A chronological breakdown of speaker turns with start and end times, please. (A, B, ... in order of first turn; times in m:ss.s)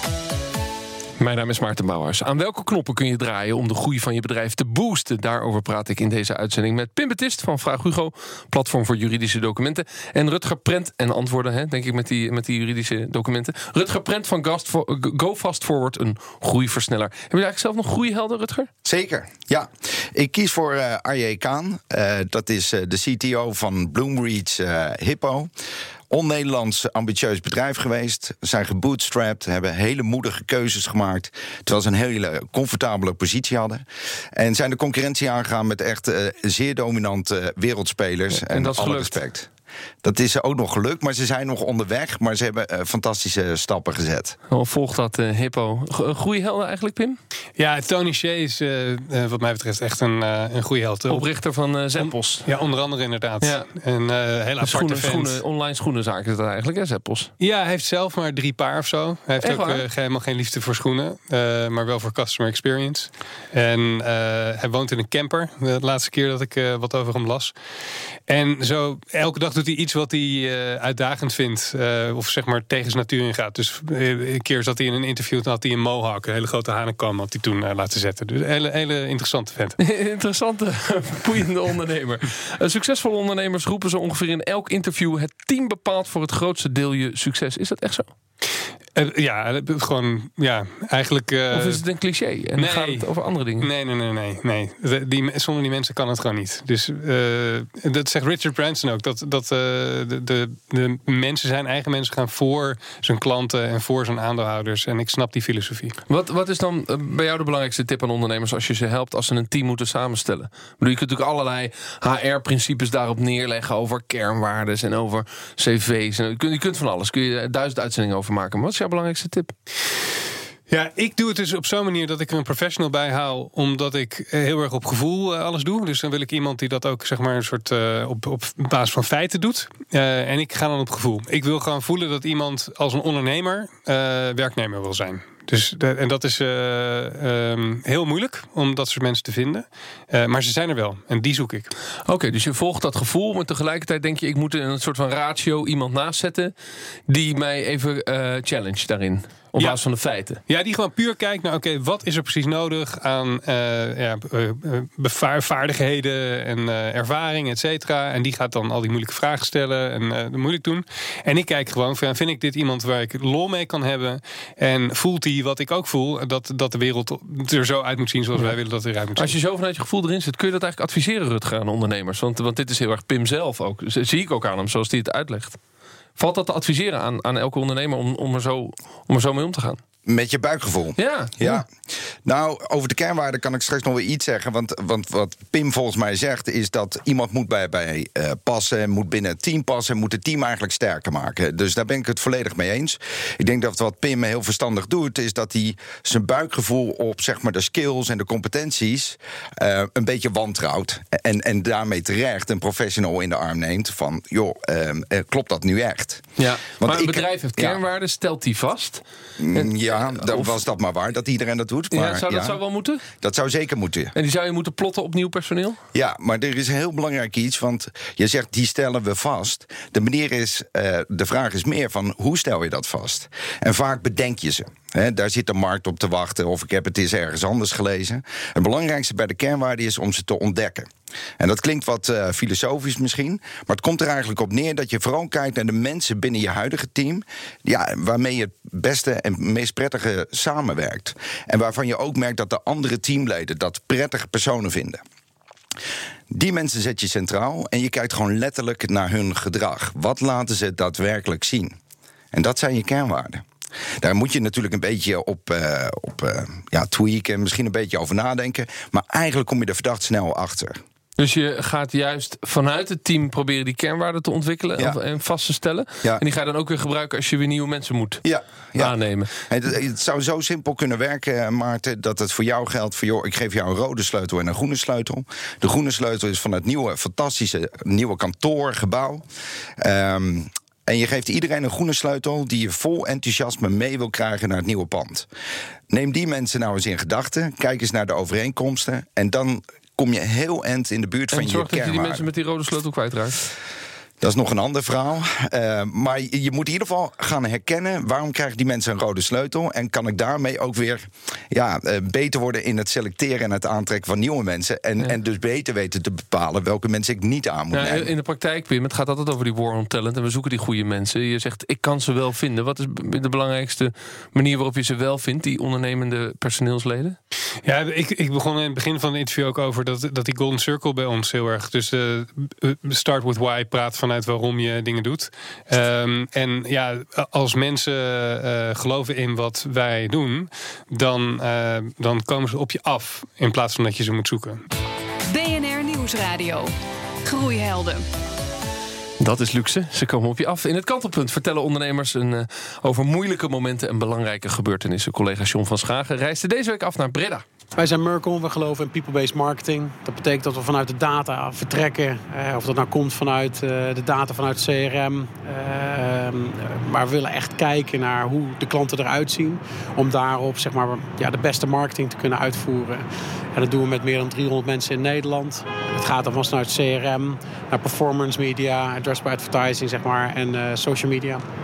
0:01.2-0:18.7 A
0:18.8-0:25.5 B
0:26.1-0:33.8 B
0:34.4-0:39.5 B
0:38.3-0:39.2 A
0:40.0-0:44.4 B
0:44.5-0:47.2 A
0:47.6-0:51.2 C
0:51.1-0:52.5 A
0:52.0-0:55.4 C
0:54.6-0:57.3 A
0:57.4-1:07.5 C
0:59.4-0:59.8 A
1:08.3-1:19.8 C
1:19.8-1:28.1 A
1:29.0-1:31.8 C
1:31.5-1:33.7 A
1:32.6-1:33.0 C
1:33.6-1:45.9 C
1:46.1-1:59.5 A
2:00.7-2:21.7 C
2:22.0-2:26.5 A
2:27.1-2:30.4 A
2:30.5-2:49.3 C
2:49.2-2:55.6 A
2:56.2-2:59.8 A
3:00.0-3:01.7 B
3:01.0-3:01.6 A
3:02.2-3:26.2 B
3:26.4-3:30.6 A
3:26.8-3:27.8 B
3:29.4-3:32.6 B
3:31.9-3:33.0 A
3:33.2-3:34.1 B
3:34.1-3:35.8 A
3:35.9-4:05.0 B
4:06.3-4:11.8 B
4:12.3-4:13.4 B
4:14.0-4:20.8 B
4:21.2-4:28.2 A
4:28.2-4:28.9 B
4:28.8-4:29.3 A
4:29.4-4:39.2 B
4:39.8-4:45.3 B
4:45.9-4:52.2 B
4:51.3-4:53.4 A
4:54.2-5:08.1 B
5:07.7-5:17.2 A
5:17.6-5:34.6 C
5:35.3-5:36.7 D
5:37.2-5:38.0 D
5:39.2-5:47.4 A
5:47.8-6:11.4 E